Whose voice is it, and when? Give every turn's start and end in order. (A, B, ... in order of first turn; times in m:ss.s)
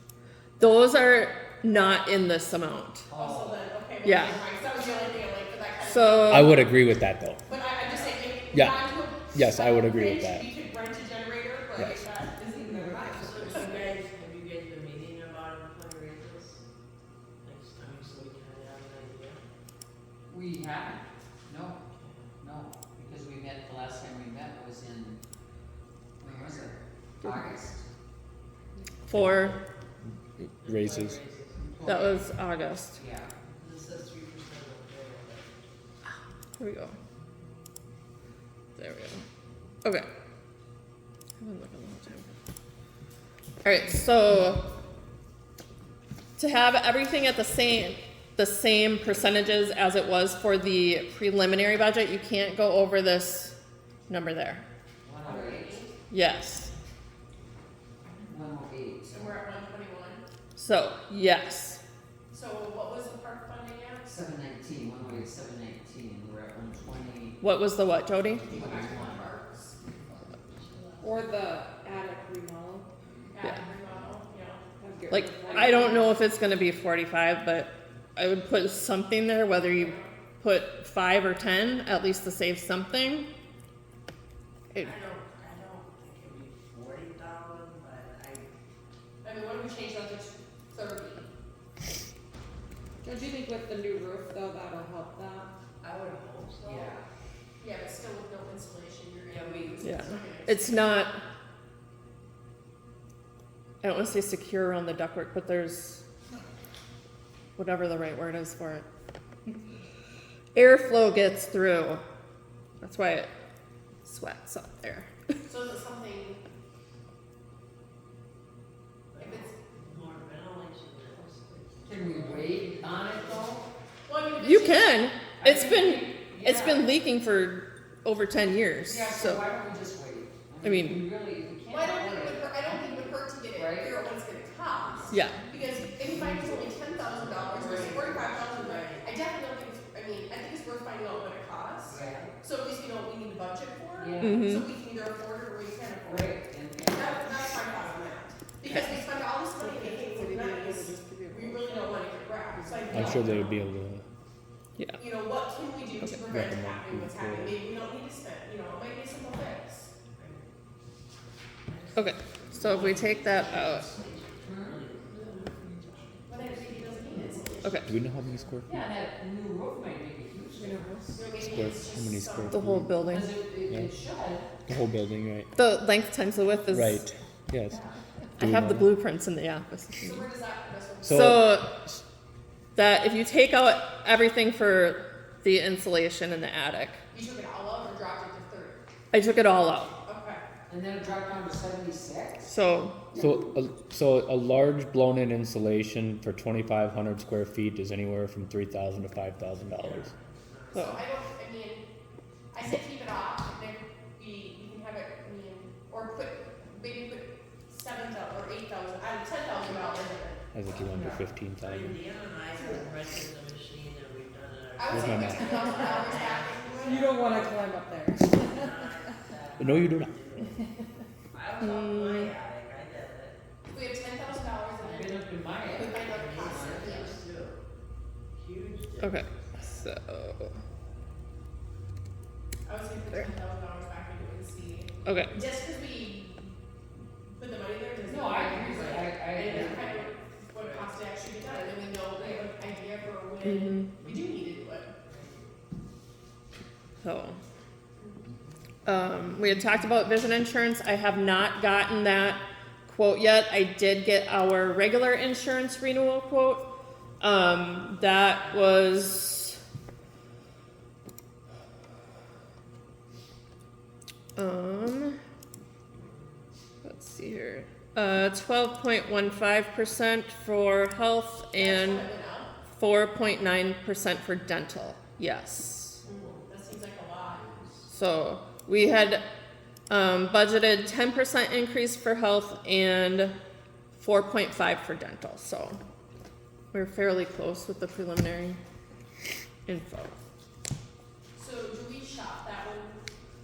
0:00.6-0:03.1 A
0:00.6-0:01.0 B
0:03.1-0:03.6 C
0:03.1-0:06.7 B
0:04.0-0:04.4 A
0:05.8-0:06.6 A
0:06.3-0:07.4 D
0:07.5-0:13.6 B
0:07.8-0:08.3 E
0:08.5-0:10.5 D
0:12.5-0:13.7 F
0:13.2-0:16.6 E
0:17.4-0:19.4 E
0:20.3-0:21.8 C
0:22.0-0:22.3 E
0:22.4-0:25.2 C
0:26.2-0:27.8 C
0:29.1-0:29.6 A
0:29.1-0:29.6 D
0:30.4-0:31.2 D
0:30.6-0:32.3 E
0:31.8-0:33.0 A
0:33.0-0:33.3 C
0:33.5-0:35.6 E
0:36.6-0:37.0 A
0:38.8-0:39.2 A
0:41.4-0:42.3 A
0:43.6-0:44.7 A
0:46.4-0:53.6 A
0:54.1-0:54.6 A
0:55.0-0:55.8 C
0:55.2-0:56.0 B
0:56.1-0:56.7 A
0:58.3-0:59.3 C
0:59.1-1:00.2 B
1:00.6-1:01.8 A
1:02.3-1:04.2 B
1:04.0-1:07.4 C
1:07.4-1:08.6 A
1:08.3-1:09.3 C
1:08.4-1:09.8 B
1:10.6-1:11.0 E
1:11.0-1:12.9 F
1:13.3-1:14.6 B
1:14.8-1:16.2 F
1:15.1-1:23.3 A
1:15.5-1:16.0 B
1:19.7-1:20.2 B
1:24.8-1:28.5 E
1:29.2-1:31.3 B
1:33.0-1:35.5 F
1:35.8-1:37.0 E
1:36.6-1:37.0 C
1:37.6-1:40.9 B
1:39.3-1:40.1 E
1:39.8-1:41.2 A
1:43.8-1:46.0 A
1:47.6-1:48.9 A
1:50.5-1:52.0 A
1:52.8-1:53.3 A
1:54.0-1:55.1 A
1:55.5-1:56.4 B
1:59.1-2:03.5 E
1:59.2-1:59.5 B
2:01.8-2:03.7 C
2:04.1-2:05.1 B
2:04.4-2:09.4 A
2:05.4-2:06.9 C
2:08.8-2:14.0 C
2:10.6-2:11.0 A
2:11.7-2:33.6 B
2:14.8-2:15.1 C
2:15.1-2:15.4 A
2:16.0-2:18.0 C
2:17.5-2:19.1 E
2:21.9-2:22.3 C
2:24.0-2:24.5 C
2:24.2-2:24.7 A
2:26.0-2:27.4 C
2:29.5-2:33.4 F
2:32.9-2:34.0 D
2:33.0-2:33.2 C
2:35.0-2:40.0 B
2:36.3-2:37.6 D
2:40.2-2:40.5 E
2:41.7-2:47.1 E
2:42.0-2:43.9 A
2:44.4-2:44.8 C
2:45.1-2:46.2 F
2:46.3-2:47.9 B
2:47.6-2:47.9 A
2:47.9-2:48.7 D
2:48.7-2:50.9 C
2:50.6-2:51.2 F
2:51.1-2:52.7 B
2:51.4-2:53.0 D
2:52.5-2:53.3 A
2:53.1-2:54.5 C
2:54.7-2:55.5 D
2:55.5-2:57.1 A
2:56.7-2:57.8 D
2:57.7-2:58.0 C
2:58.4-3:00.3 A
2:58.4-2:58.9 D
3:00.0-3:01.4 B
3:01.0-3:01.9 D
3:01.1-3:01.8 A
3:02.8-3:07.0 A
3:07.1-3:08.8 B
3:09.1-3:09.9 A
3:10.1-3:10.4 B
3:10.7-3:12.5 C
3:12.4-3:13.1 A
3:13.2-3:20.1 D
3:19.8-3:20.9 E
3:20.7-3:21.0 A
3:20.8-3:21.8 B
3:22.5-3:30.4 B
3:30.5-3:32.0 D
3:30.9-3:31.2 C
3:31.6-3:37.7 E
3:32.6-3:32.9 F
3:34.8-3:37.2 B
3:34.9-3:35.6 D
3:36.8-3:39.2 F
3:38.3-3:40.5 E
3:39.6-3:40.1 D
3:41.3-3:43.4 E
3:41.6-3:42.4 A
3:43.7-3:47.2 B
3:44.8-3:47.2 C
3:46.1-3:47.6 E
3:48.3-3:49.6 E
3:49.0-3:50.6 A
3:52.7-3:56.5 B
3:55.0-3:55.4 A
3:57.3-4:04.9 B
3:58.0-4:00.0 C
3:59.0-4:01.1 E
4:03.4-4:03.9 A
4:05.0-4:05.5 E
4:07.0-4:07.4 A
4:08.9-4:16.7 A
4:17.2-4:19.6 A
4:24.4-4:25.2 A
4:26.8-4:32.1 A
4:31.6-4:32.5 B
4:32.7-4:36.0 A
4:36.0-4:36.5 E
4:36.0-4:37.5 B
4:37.4-4:37.8 E
4:37.9-4:39.2 A
4:39.9-4:43.4 A
4:43.9-4:45.8 A
4:46.7-4:48.6 A
4:49.7-4:50.2 A
4:51.4-4:53.0 B